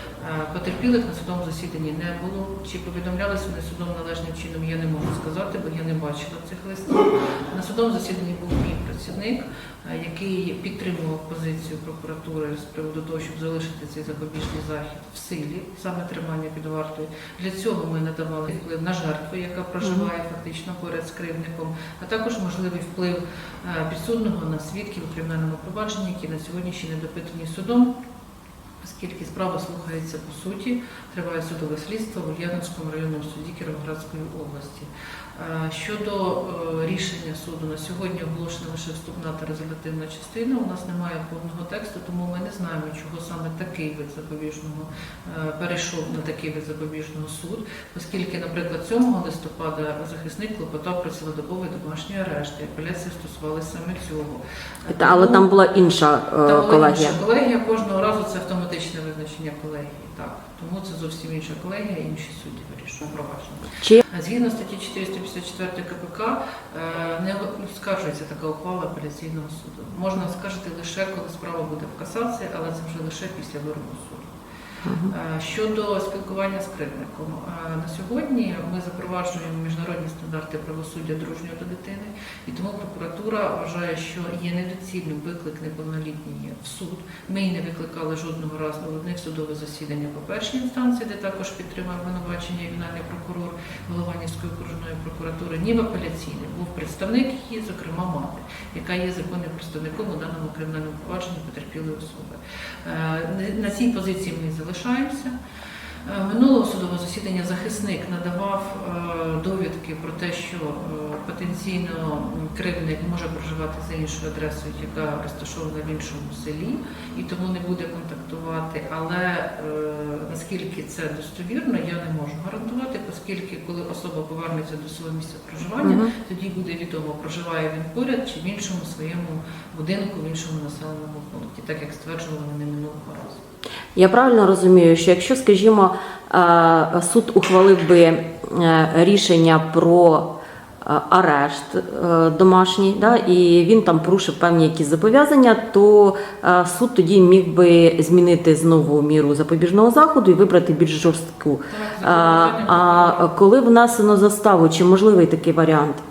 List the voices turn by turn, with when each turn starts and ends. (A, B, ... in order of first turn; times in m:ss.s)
0:00.2-0:28.0 A
0:19.8-0:20.1 B
0:28.8-0:55.5 A
0:54.9-0:57.2 B
0:56.4-1:14.3 A
1:14.8-1:15.1 B
1:15.1-1:45.4 A
1:46.0-2:13.4 A
2:05.8-2:06.1 B
2:14.0-2:20.3 B
2:20.8-2:36.0 B
2:31.7-2:33.4 A